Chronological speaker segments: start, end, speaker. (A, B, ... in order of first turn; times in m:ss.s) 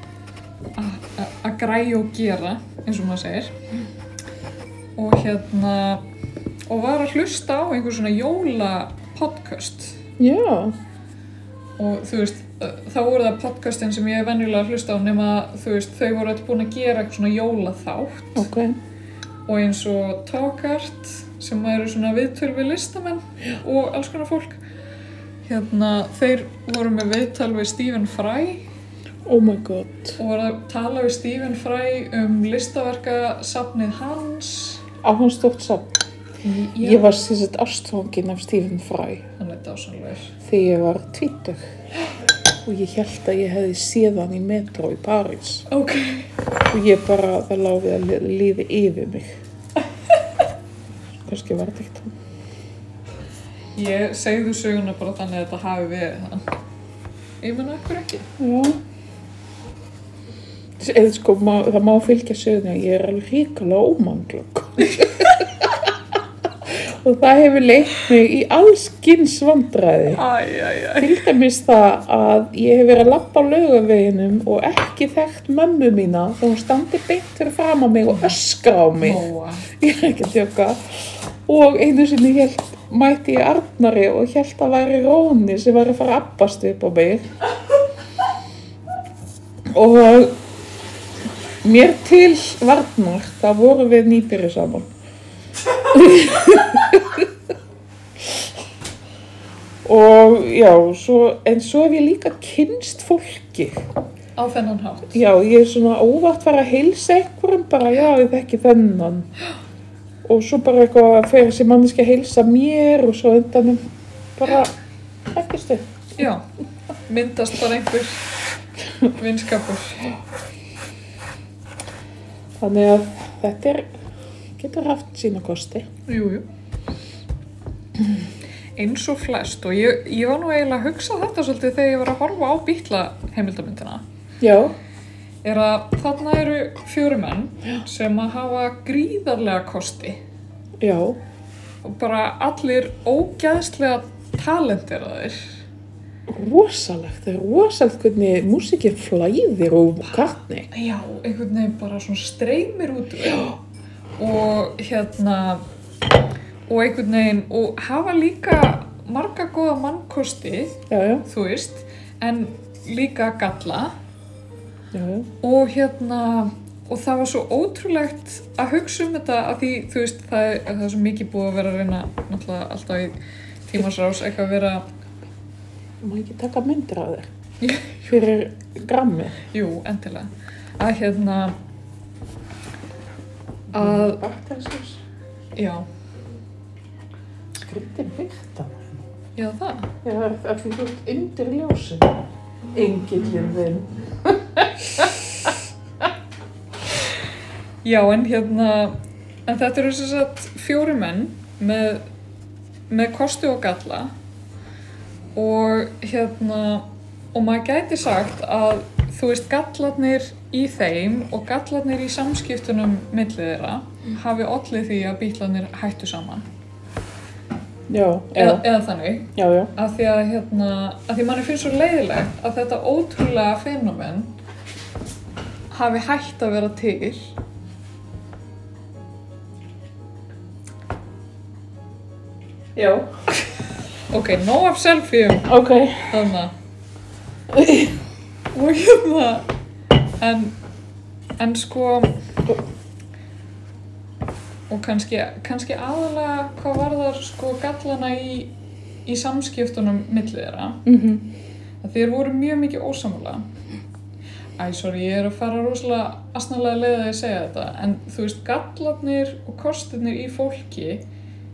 0:00.8-0:03.6 A
0:05.0-0:06.0 A
0:06.7-0:10.0 A
0:10.2-0:10.8 B
0:11.8-0:18.5 A
0:18.4-0:18.8 B
0:19.5-0:24.6 A
0:25.4-0:28.6 A
0:29.3-0:30.2 B
0:30.2-0:34.8 A
0:35.0-0:36.0 B
0:36.4-0:37.1 A
0:36.8-0:39.2 B
0:39.4-0:40.4 A
0:40.4-0:41.6 B
0:42.6-0:45.7 B
0:45.7-0:46.3 A
0:46.7-0:49.4 B
0:51.2-0:52.1 B
0:53.8-0:56.5 A
0:57.4-0:58.3 A
0:58.4-0:58.8 B
1:00.8-1:05.8 B
1:04.9-1:05.5 A
1:06.6-1:10.2 B
1:10.1-1:11.3 A
1:11.0-1:19.2 B
1:19.0-1:19.7 A
1:19.8-1:27.3 B
1:29.7-1:30.4 B
1:31.6-1:34.9 B
1:35.8-1:37.3 B
1:39.8-1:43.9 B
1:44.4-1:45.2 A
1:45.1-1:49.3 B
1:50.2-1:53.8 B
1:54.4-1:54.7 B
1:55.3-1:56.2 B
1:56.2-1:56.4 A
1:57.1-1:58.2 A
1:59.1-2:00.1 A
2:02.6-2:03.9 B
2:04.6-2:05.9 B
2:06.1-2:06.4 A
2:08.8-2:14.0 A
2:14.4-2:14.7 B
2:15.4-2:20.2 A
2:20.8-2:21.2 B
2:21.8-2:25.5 A
2:26.3-2:30.7 B
2:30.7-2:33.5 A
2:34.2-2:35.6 A
2:36.7-2:43.9 A
2:40.9-2:41.2 B
2:44.9-2:45.3 B
2:45.4-2:54.9 A
2:56.0-2:57.3 B
2:57.6-2:58.0 A
2:58.0-2:59.4 B
2:59.5-3:01.6 A
3:03.7-3:05.0 B
3:03.7-3:04.2 A
3:05.6-3:05.8 A
3:07.6-3:09.0 B
3:09.4-3:09.9 A
3:10.0-3:12.2 B
3:12.7-3:15.5 B
3:17.8-3:19.0 A
3:19.5-3:22.0 A
3:22.9-3:24.1 A
3:25.4-3:36.5 A
3:37.9-3:38.6 B
3:38.4-3:44.3 A
3:39.4-3:39.7 B
3:45.7-3:47.3 A
3:52.8-3:53.1 B
3:54.1-3:55.5 A
3:55.5-3:56.1 B
3:56.1-3:56.5 A
3:57.5-3:58.0 B
3:58.5-3:59.5 A
4:00.2-4:00.6 A
4:01.4-4:02.2 A
4:04.7-4:08.5 A
4:09.1-4:10.8 A
4:10.9-4:11.3 B
4:11.8-4:13.5 A
4:14.6-4:21.0 A